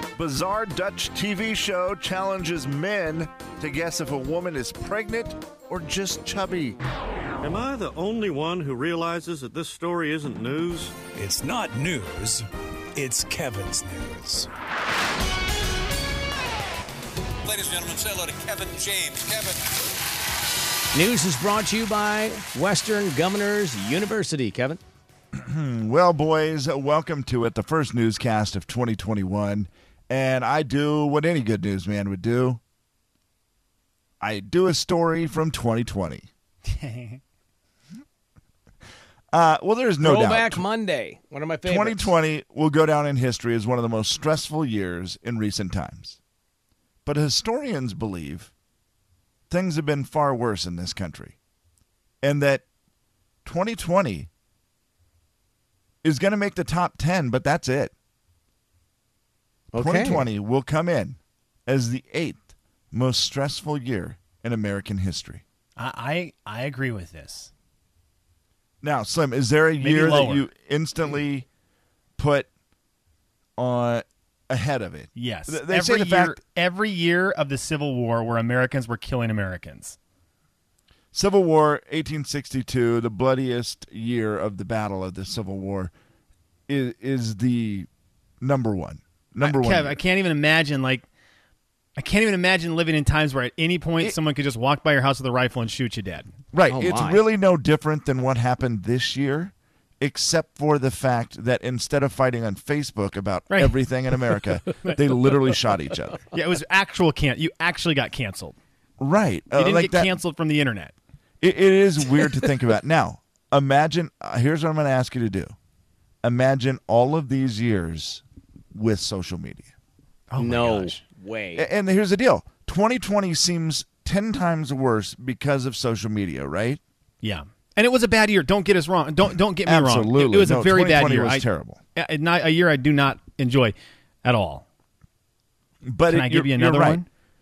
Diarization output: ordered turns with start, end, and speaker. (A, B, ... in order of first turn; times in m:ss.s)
0:00.2-0:06.8 A
0:07.4-0:11.0 B
0:11.2-0:12.4 C
0:13.0-0:14.5 C
0:17.4-0:19.6 D
0:20.9-0:24.8 E
0:25.3-0:32.6 A
0:34.2-0:36.3 A
0:36.6-0:37.2 F
0:39.3-0:40.6 A
0:40.0-0:42.1 E
0:41.6-0:46.2 A
0:47.0-0:48.5 A
0:49.5-0:51.4 A
0:52.2-0:52.6 A
0:53.4-0:54.3 A
0:56.0-0:57.9 A
0:59.7-1:00.2 E
0:59.8-1:05.4 A
1:05.8-1:07.5 F
1:08.8-1:11.5 A
1:09.8-1:10.5 F
1:12.2-1:12.5 A
1:13.6-1:16.4 A
1:15.2-1:20.0 F
1:21.1-1:25.9 A
1:26.7-1:27.9 A
1:28.4-1:30.0 A
1:29.4-1:31.0 F
1:32.0-1:36.3 F
1:36.5-1:46.2 A
1:36.7-1:37.2 E
1:43.5-1:43.8 F
1:44.3-1:45.0 F
1:46.3-1:48.6 F
1:49.0-1:50.2 A
1:49.6-1:50.9 F
1:51.4-1:55.5 A
1:56.2-1:59.7 A
2:00.3-2:01.0 F
2:00.4-2:01.7 E
2:01.6-2:06.8 A
2:07.2-2:14.6 F
2:09.6-2:11.8 A
2:15.8-2:17.0 A
2:16.1-2:17.1 F